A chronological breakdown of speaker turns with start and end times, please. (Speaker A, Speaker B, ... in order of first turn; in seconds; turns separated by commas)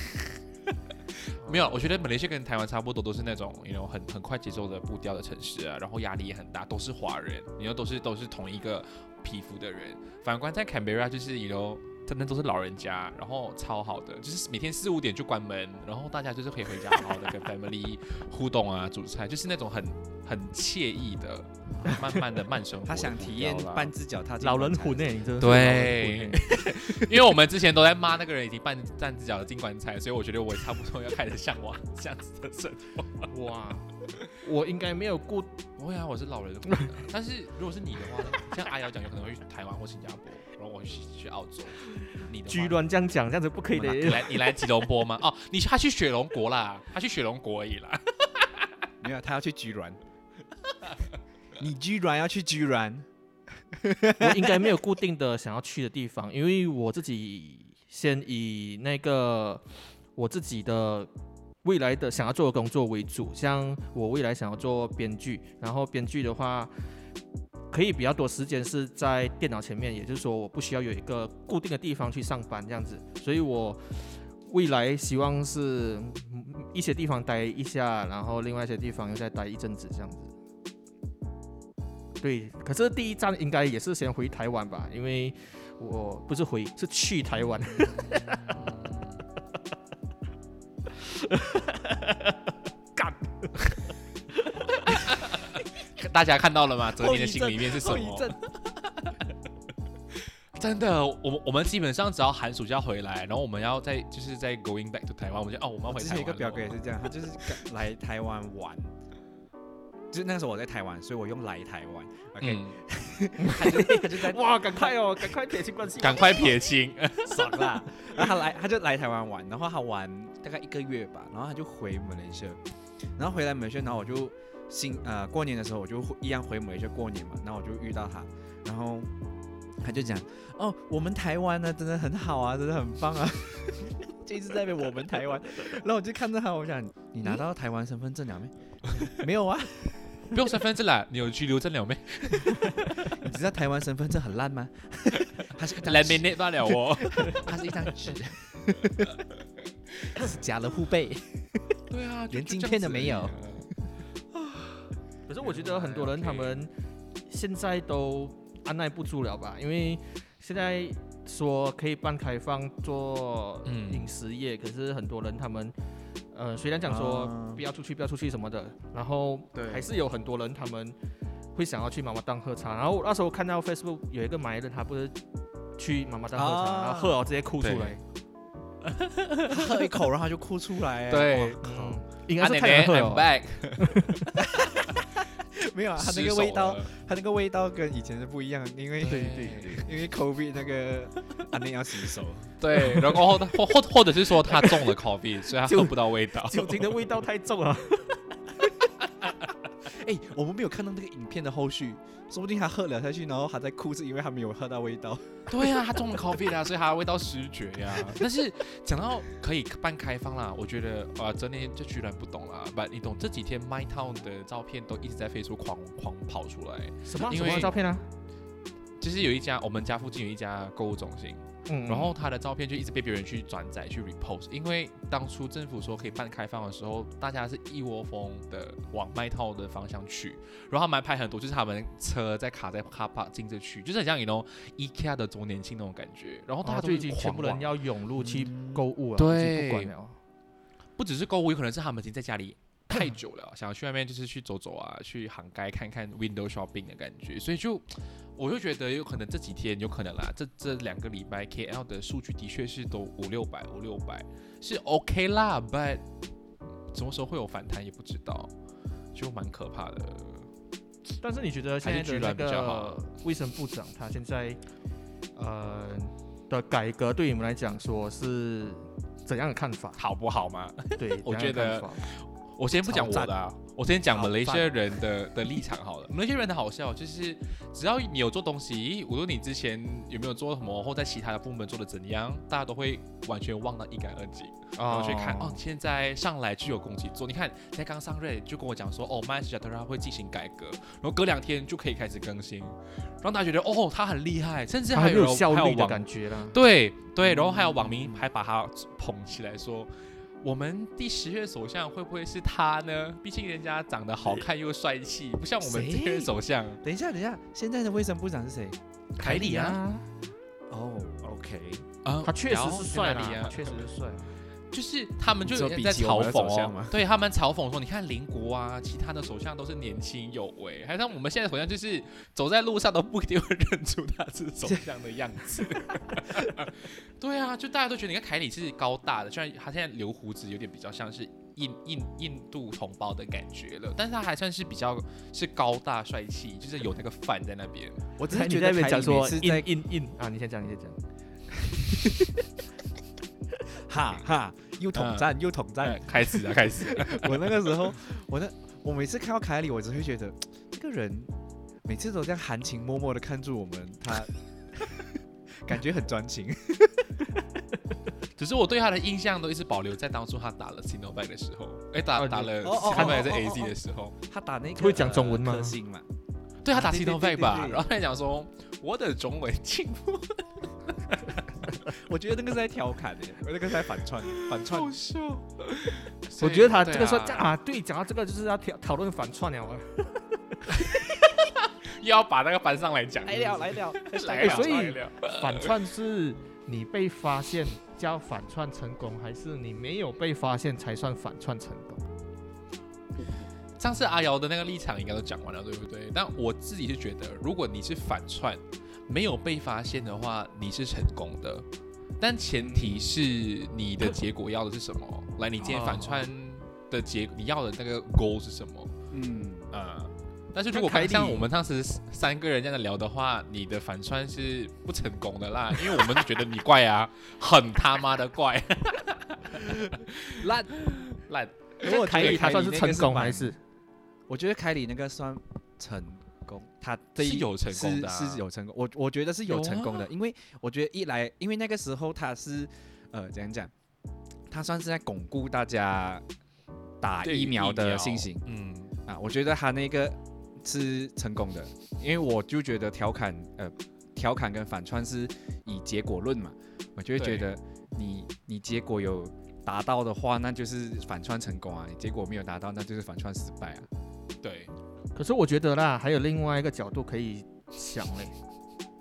Speaker A: 1.1-23.9, Speaker B: 1.4-1.7, Speaker C: 22.9-25.1, Speaker B: 24.4-26.4, Speaker A: 25.4-33.3, Speaker B: 33.3-35.6, Speaker A: 35.8-42.8, Speaker B: 36.8-37.0, Speaker B: 42.2-44.5, Speaker A: 43.7-48.7, Speaker C: 49.0-50.0, Speaker C: 51.6-53.1, Speaker C: 53.7-54.7, Speaker B: 54.1-59.6, Speaker B: 60.1-61.1, Speaker B: 61.6-66.7, Speaker B: 67.7-80.3, Speaker B: 82.2-88.7, Speaker A: 87.7-89.2, Speaker B: 91.0-92.3, Speaker B: 93.0-93.5, Speaker A: 94.8-98.4, Speaker C: 97.0-98.4, Speaker A: 100.5-106.8, Speaker C: 105.9-108.9, Speaker C: 110.1-115.0, Speaker A: 112.4-112.8, Speaker B: 113.4-116.6, Speaker A: 116.0-117.8, Speaker C: 117.2-122.6, Speaker C: 123.2-129.1, Speaker C: 129.8-139.7, Speaker A: 140.3-142.9, Speaker C: 143.0-149.2, Speaker A: 145.7-147.5, Speaker C: 150.1-151.8, Speaker A: 151.9-153.7, Speaker C: 152.3-153.4, Speaker B: 155.3-156.7, Speaker A: 155.4-156.6, Speaker B: 157.3-165.7, Speaker A: 163.7-164.1, Speaker B: 166.3-170.9, Speaker C: 166.8-167.6, Speaker C: 169.6-169.8, Speaker B: 171.5-175.2, Speaker B: 175.8-178.0, Speaker C: 176.3-177.2, Speaker A: 177.6-177.9, Speaker A: 178.8-179.7, Speaker C: 179.5-181.9, Speaker A: 181.1-181.8, Speaker B: 181.6-184.4, Speaker A: 182.4-184.2, Speaker C: 184.3-193.0, Speaker A: 184.8-185.1, Speaker A: 186.0-186.9, Speaker A: 189.0-189.9, Speaker B: 189.1-189.7, Speaker A: 192.6-196.9, Speaker B: 194.5-194.8, Speaker B: 195.7-198.7, Speaker C: 199.8-205.3, Speaker A: 205.5-217.8, Speaker B: 217.0-218.0, Speaker A: 219.0-237.7, Speaker B: 221.7-222.1, Speaker B: 236.6-240.2, Speaker C: 238.2-238.8, Speaker A: 239.2-239.9, Speaker A: 241.0-256.0, Speaker A: 256.9-258.5, Speaker A: 259.1-260.5, Speaker B: 261.2-264.6, Speaker A: 261.8-263.0, Speaker B: 265.4-270.0, Speaker A: 270.0-299.9, Speaker B: 271.0-272.1, Speaker C: 272.8-273.3, Speaker C: 274.1-274.6, Speaker B: 284.8-285.6, Speaker B: 294.9-296.6, Speaker C: 297.2-298.2, Speaker A: 300.4-306.8, Speaker C: 305.6-308.8, Speaker A: 309.2-309.8, Speaker B: 309.2-310.1, Speaker C: 310.7-311.9, Speaker A: 312.0-314.1, Speaker B: 312.2-314.1, Speaker A: 314.7-338.0, Speaker C: 315.4-317.0, Speaker C: 338.2-339.7, Speaker B: 338.3-341.0, Speaker C: 343.8-351.3, Speaker A: 344.9-345.3, Speaker A: 345.8-347.7, Speaker C: 351.8-357.2, Speaker A: 358.4-364.1, Speaker B: 362.1-363.3, Speaker C: 362.6-366.1, Speaker B: 364.8-365.8, Speaker A: 366.6-371.4, Speaker C: 366.7-367.8, Speaker C: 371.9-374.9, Speaker A: 374.2-377.5, Speaker B: 376.4-380.9, Speaker A: 380.7-385.7, Speaker C: 383.2-384.9, Speaker B: 384.3-392.0, Speaker A: 393.8-401.6, Speaker A: 402.2-408.9, Speaker B: 405.7-406.2, Speaker C: 409.1-409.7, Speaker A: 409.7-422.5, Speaker B: 410.7-411.5, Speaker C: 420.3-420.9, Speaker C: 421.8-423.5, Speaker B: 421.8-423.6, Speaker C: 424.3-433.7, Speaker A: 427.1-428.4, Speaker A: 429.5-430.1, Speaker C: 434.5-436.2, Speaker C: 437.0-438.4, Speaker A: 437.2-438.9, Speaker C: 439.0-453.9, Speaker A: 447.1-447.5, Speaker A: 454.4-454.7, Speaker B: 455.1-458.3